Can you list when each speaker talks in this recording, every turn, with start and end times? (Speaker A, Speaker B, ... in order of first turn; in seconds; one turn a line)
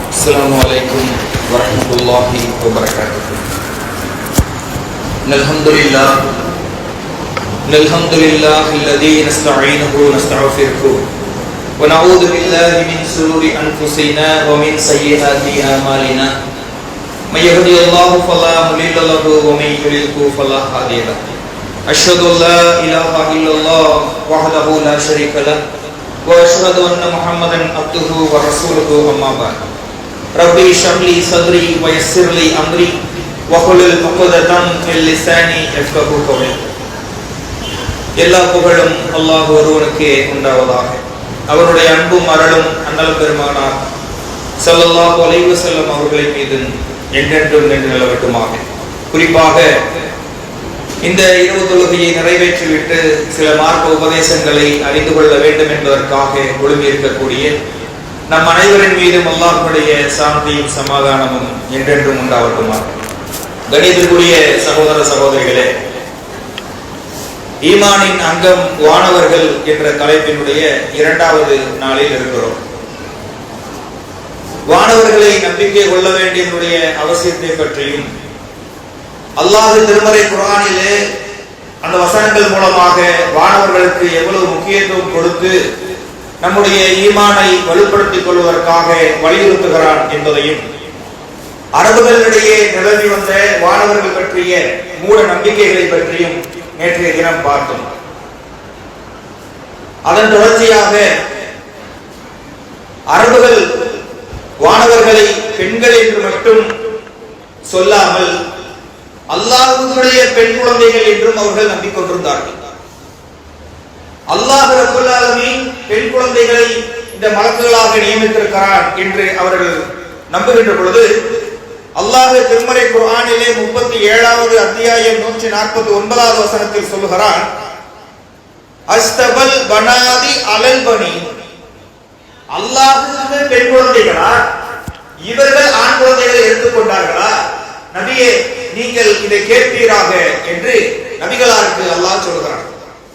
Speaker A: 0.1-3.4
Speaker A: 5.3-6.2
Speaker A: 7.7-11.0
Speaker A: 11.8-16.3
Speaker A: 17.3-21.2
Speaker A: 21.9-25.6
Speaker A: 26.2-29.6
Speaker A: 30.4-33.0
Speaker A: 33.5-36.6
Speaker A: 38.2-43.8
Speaker A: 44.6-49.7
Speaker A: 51.0-57.5
Speaker A: 58.3-62.9
Speaker A: 63.7-65.7
Speaker A: 67.7-72.6
Speaker A: 74.7-78.1
Speaker A: 79.4-81.0
Speaker A: 81.8-85.5
Speaker A: 86.4-90.6
Speaker A: 91.8-97.8
Speaker A: 100.1-101.1
Speaker A: 103.1-103.7
Speaker A: 104.6-106.6
Speaker A: 107.7-108.3
Speaker A: 109.3-112.6
Speaker A: 114.3-119.8
Speaker A: 120.3-121.1
Speaker A: 122.0-127.5
Speaker A: 128.9-131.2
Speaker A: 132.5-134.3
Speaker A: 135.3-137.3
Speaker A: 137.9-142.7